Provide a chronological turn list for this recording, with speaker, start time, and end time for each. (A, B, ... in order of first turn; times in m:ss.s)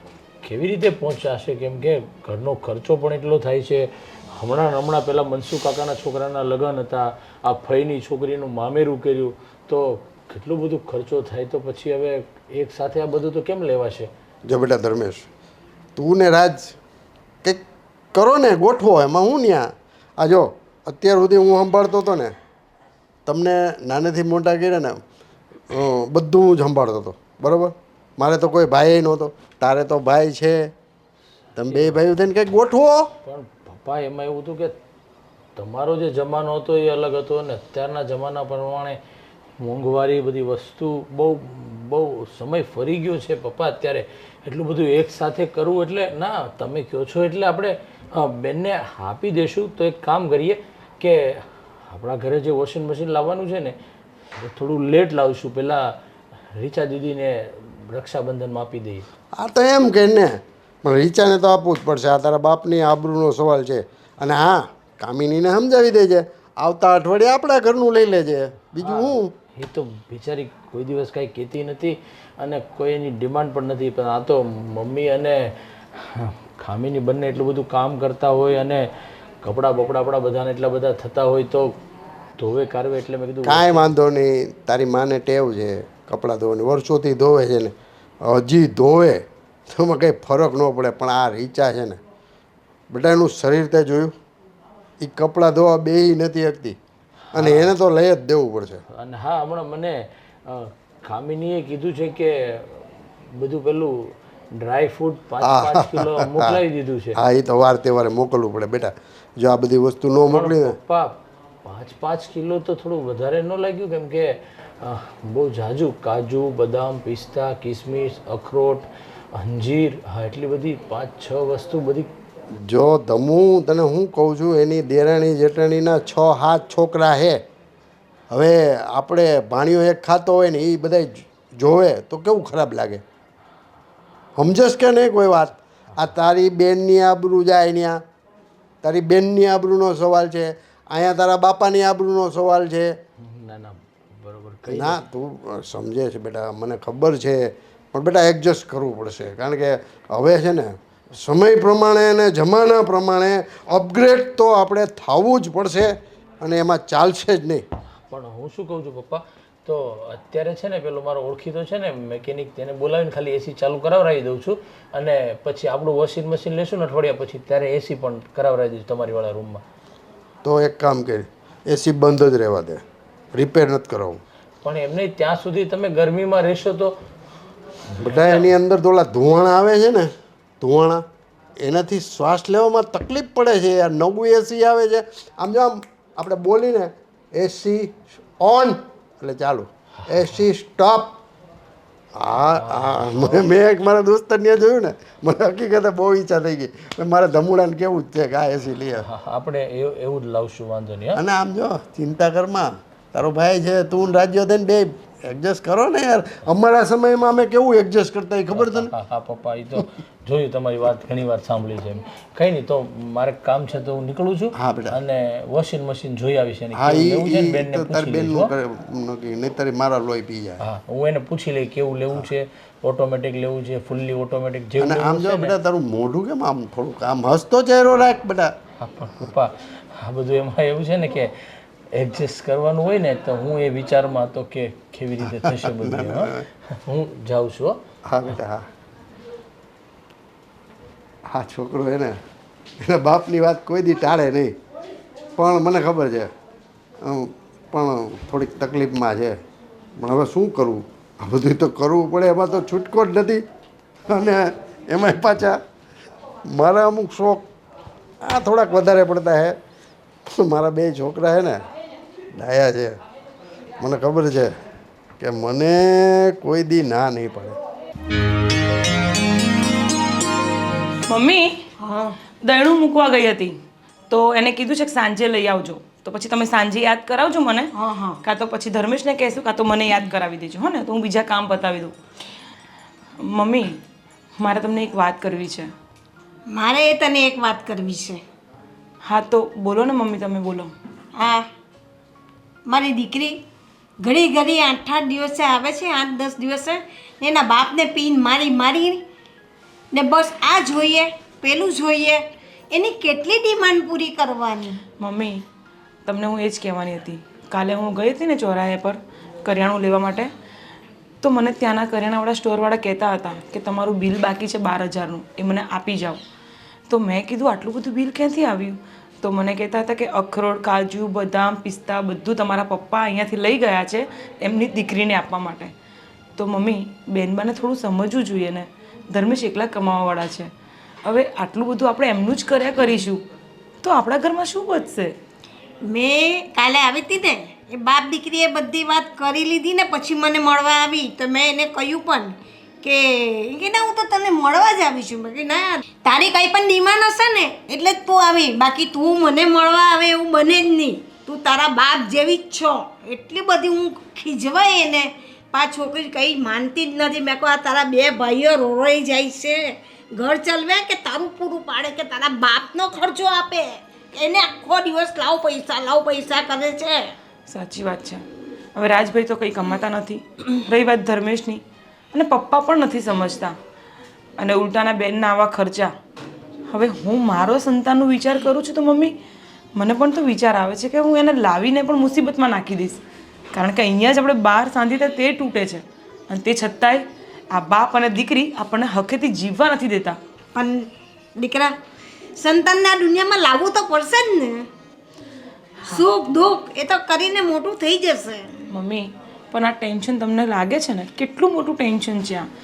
0:00.4-0:14.1 A
0:14.5-0:15.3 B
0:16.0-0:16.8 B
0:18.1-0:22.4 B
0:23.3-0:25.0 B
0:25.7-0:30.7 B
0:31.6-0:33.1 B
0:31.7-0:32.0 A
0:33.2-0:34.8 A
0:35.6-0:39.0 A
0:39.6-0:53.8 A
0:54.4-0:56.0 A
0:56.5-0:59.1 A
0:59.4-1:09.3 B
1:08.8-1:18.9 A
1:19.4-1:21.8 A
1:22.4-1:23.9 A
1:23.4-1:32.0 B
1:32.9-1:34.1 B
1:35.0-1:36.8 B
1:37.3-1:37.7 A
1:37.3-1:38.8 B
1:38.9-1:47.2 A
1:45.4-1:46.6 B
1:47.2-1:50.8 B
1:50.3-2:02.1 A
2:02.6-2:07.4 B
2:08.3-2:13.0 B
2:14.4-2:18.0 B
2:18.8-2:23.0 B
2:23.2-2:25.0 A
2:24.7-2:37.6 B
2:38.1-2:49.6 A
2:50.4-2:52.8 B
2:53.3-2:54.2 B
2:54.6-2:56.9 A
2:57.9-2:58.5 A
2:58.0-3:00.1 B
3:00.6-3:01.0 B
3:01.6-3:11.2 B
3:12.2-3:19.1 B
3:12.5-3:13.5 A
3:19.0-3:21.2 A
3:21.2-3:28.9 B
3:28.6-3:38.5 A
3:34.6-3:35.0 B
3:36.8-3:40.6 B
3:40.6-3:45.6 A
3:44.8-3:48.5 B
3:48.8-3:51.3 A
3:51.9-3:57.8 A
3:55.3-3:56.4 B
3:58.1-3:58.6 B
4:01.3-4:02.2 B
4:02.8-4:04.6 B
4:05.4-4:06.3 B
4:07.0-4:09.4 B
4:10.0-4:13.4 B
4:14.1-4:15.6 B
4:16.5-4:17.4 B
4:18.2-4:19.6 B
4:20.3-4:21.6 B
4:22.3-4:23.0 B
4:23.8-4:24.6 B
4:25.2-4:27.6 B
4:31.1-4:31.6 C
4:31.8-4:32.2 D
4:32.4-4:33.6 C
4:34.1-4:42.0 C
4:37.8-4:38.2 D
4:43.2-4:43.8 C
4:44.4-4:45.7 C
4:46.5-4:48.2 D
4:49.0-4:50.7 C
4:51.2-4:51.5 D
4:52.7-4:53.4 D
4:54.0-4:59.0 D
4:59.9-5:04.8 D
5:05.0-5:05.4 C
5:06.1-5:10.3 C
5:11.2-5:16.2 C
5:16.9-5:25.7 C
5:26.4-5:30.5 C
5:31.0-5:33.2 C
5:33.8-5:35.1 C
5:35.8-6:07.1 D
6:07.5-6:11.6 C
6:12.1-6:13.6 C
6:14.4-6:15.9 C
6:16.7-6:19.2 C
6:19.8-6:23.0 C
6:23.5-6:30.2 C
6:30.6-6:31.8 D
6:32.4-6:34.7 D
6:35.9-6:38.6 D
6:38.7-6:42.5 C